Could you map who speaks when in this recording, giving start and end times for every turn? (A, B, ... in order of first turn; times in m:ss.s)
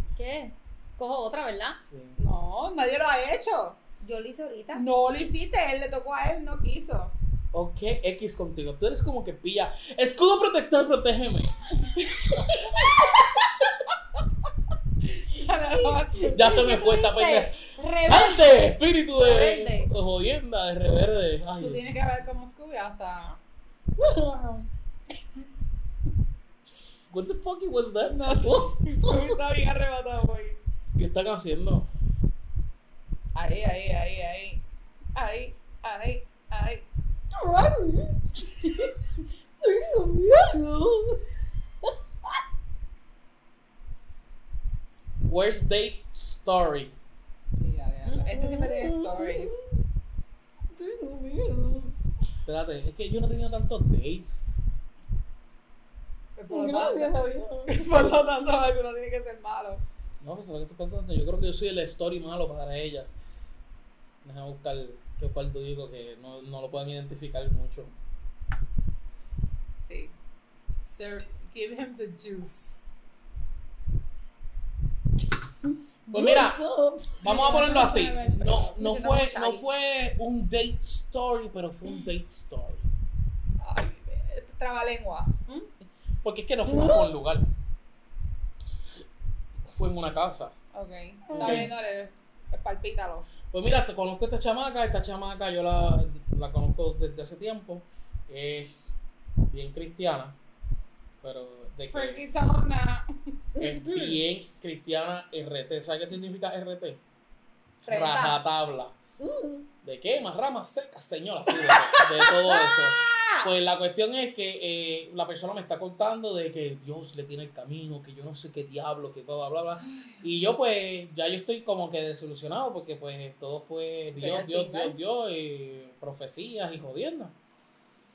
0:00.2-0:01.8 A
0:01.9-0:02.2 B
0:02.2-0:03.8 C
0:04.0-0:04.8 A
0:04.7-0:07.1 C
0:07.5-0:13.0 B
0:15.2-0:16.5 C
0:15.7-0:19.9 A
0:16.3-0:21.8 B
0:21.6-0:23.4 C
0:24.0-0:24.7 A
0:27.1-0:29.2 B
0:28.1-0:30.6 C
0:31.0-0:31.9 B
0:33.4-0:34.6 C
0:35.2-0:36.8 C
0:37.3-0:39.0 A
0:39.6-0:41.2 A
0:45.2-0:47.0 B
0:47.6-0:49.6 C
0:48.1-0:49.8 A
0:50.7-0:51.9 A
0:52.5-0:54.5 B
0:56.4-0:59.8 C
0:56.5-0:57.8 A
1:00.2-1:03.2 B
1:04.2-1:07.9 B
1:09.8-1:10.1 C
1:10.8-1:12.8 C
1:16.1-1:17.2 A
1:16.1-1:16.6 B
1:17.2-1:22.9 B
1:17.2-1:19.4 C
1:18.8-1:19.6 A
1:23.6-1:25.4 C
1:26.2-1:27.5 B
1:26.6-1:27.1 A
1:29.7-1:30.5 B
1:30.7-1:33.3 C
1:31.3-1:31.7 A
1:31.3-1:31.7 B
1:33.5-1:39.0 B
1:39.5-1:40.4 B
1:41.2-1:42.2 B
1:41.8-1:43.1 C
1:43.6-1:44.2 A
1:43.6-1:47.0 B
1:47.8-1:48.4 A
1:47.9-1:49.0 B
1:49.2-1:49.7 A
1:49.8-2:07.3 B
1:51.5-1:53.5 C
2:04.2-2:05.0 C